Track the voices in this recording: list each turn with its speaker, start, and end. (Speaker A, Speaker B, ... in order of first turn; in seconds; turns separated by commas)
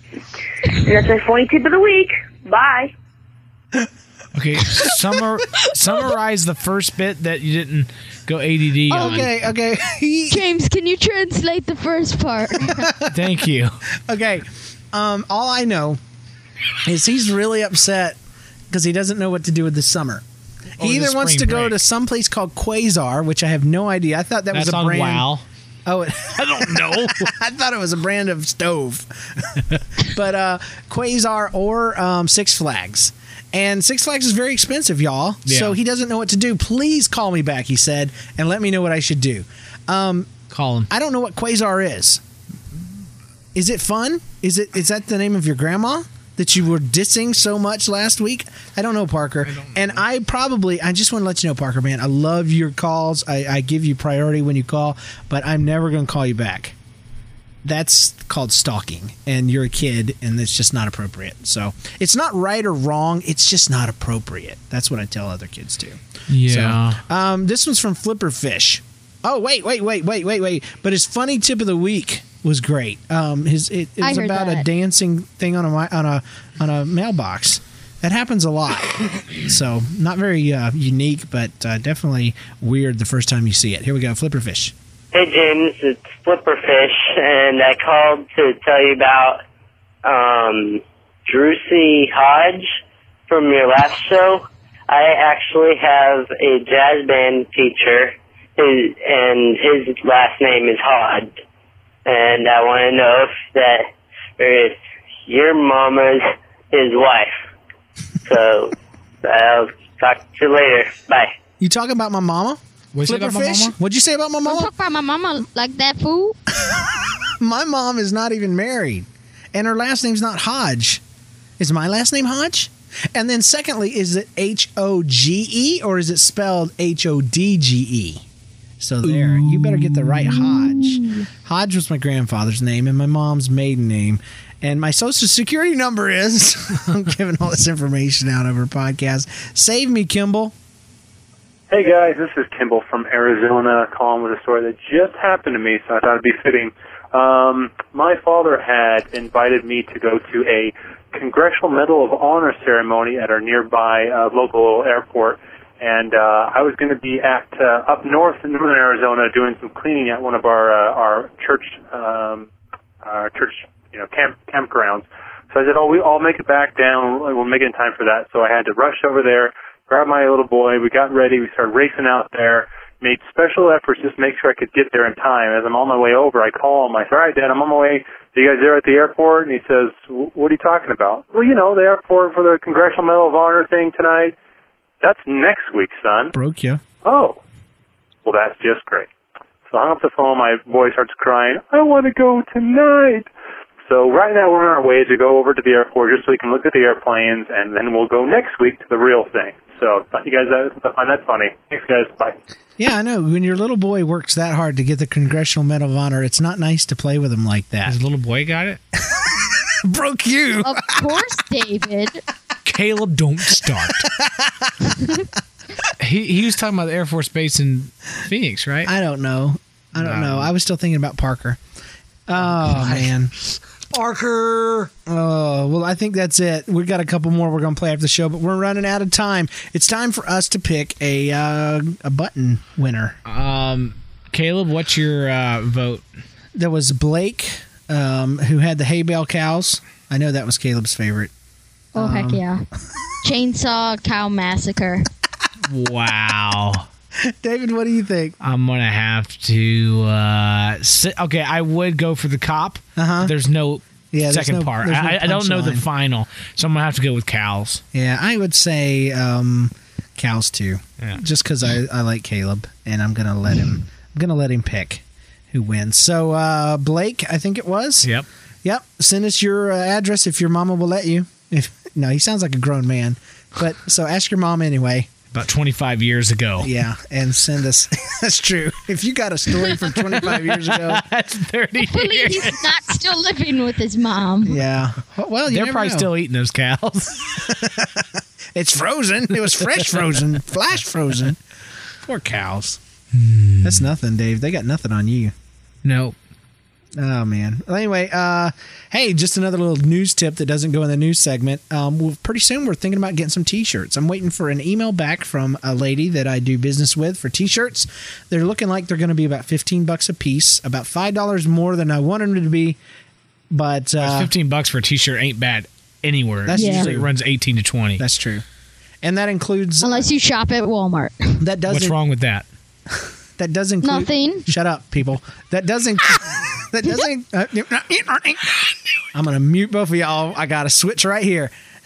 Speaker A: 0.7-2.9, Speaker B: 4.3-9.3, Speaker C: 8.9-9.2, Speaker D: 8.9-10.4, Speaker C: 10.3-12.9, Speaker D: 12.6-13.2, Speaker B: 13.1-13.7, Speaker D: 14.0-16.0, Speaker D: 16.8-18.2, Speaker D: 18.7-20.2, Speaker B: 20.8-21.8, Speaker D: 20.8-25.3, Speaker B: 24.5-25.4, Speaker D: 25.9-40.3, Speaker B: 26.3-27.3, Speaker B: 35.4-35.8, Speaker B: 40.5-40.9, Speaker D: 40.9-42.2, Speaker D: 43.5-56.7, Speaker B: 49.5-50.0, Speaker D: 57.6-84.7, Speaker B: 66.3-67.0, Speaker C: 74.0-74.7, Speaker E: 85.1-89.4, Speaker E: 90.0-92.7, Speaker E: 93.3-101.4, Speaker E: 102.0-107.4, Speaker E: 108.2-111.3, Speaker D: 111.6-114.7, Speaker B: 112.9-113.8, Speaker C: 114.4-116.3, Speaker D: 117.4-121.0, Speaker D: 121.6-128.2, Speaker D: 128.8-140.5, Speaker B: 129.1-131.0, Speaker F: 141.7-162.5, Speaker F: 163.0-184.3, Speaker F: 185.0-186.3, Speaker D: 186.3-186.8, Speaker F: 187.0-187.4, Speaker F: 188.2-189.1, Speaker F: 189.7-193.3, Speaker F: 193.8-202.3, Speaker D: 202.8-208.0, Speaker B: 207.8-208.8, Speaker D: 209.1-211.2, Speaker C: 210.6-212.2, Speaker B: 212.7-214.1, Speaker D: 213.9-215.2, Speaker B: 216.0-218.9, Speaker D: 218.8-221.6, Speaker B: 220.0-220.5, Speaker D: 222.3-223.3, Speaker B: 222.4-223.1, Speaker D: 223.9-233.2, Speaker B: 233.2-236.0, Speaker D: 236.6-241.3, Speaker C: 241.9-242.6, Speaker D: 241.9-242.4, Speaker C: 243.2-245.1, Speaker B: 245.7-246.8, Speaker D: 247.2-248.3, Speaker B: 248.4-257.8, Speaker D: 252.9-253.3, Speaker D: 254.1-255.8, Speaker D: 257.9-268.1, Speaker D: 268.6-275.1, Speaker B: 275.3-276.7, Speaker D: 276.6-281.0, Speaker B: 279.7-283.0, Speaker C: 281.9-284.6, Speaker D: 284.4-286.1, Speaker B: 285.5-287.6, Speaker D: 287.4-291.4, Speaker B: 289.6-290.3, Speaker D: 292.0-292.8, Speaker B: 293.1-293.9, Speaker D: 293.6-295.3, Speaker B: 295.8-296.1, Speaker D: 297.0-312.8, Speaker D: 313.5-314.3, Speaker B: 314.0-318.0, Speaker D: 316.4-317.1, Speaker C: 316.5-316.9, Speaker D: 318.0-318.4, Speaker D: 319.0-320.1, Speaker C: 319.8-321.4, Speaker D: 321.4-321.9, Speaker B: 321.7-322.4, Speaker D: 323.4-328.5, Speaker C: 323.8-324.5, Speaker D: 329.1-331.5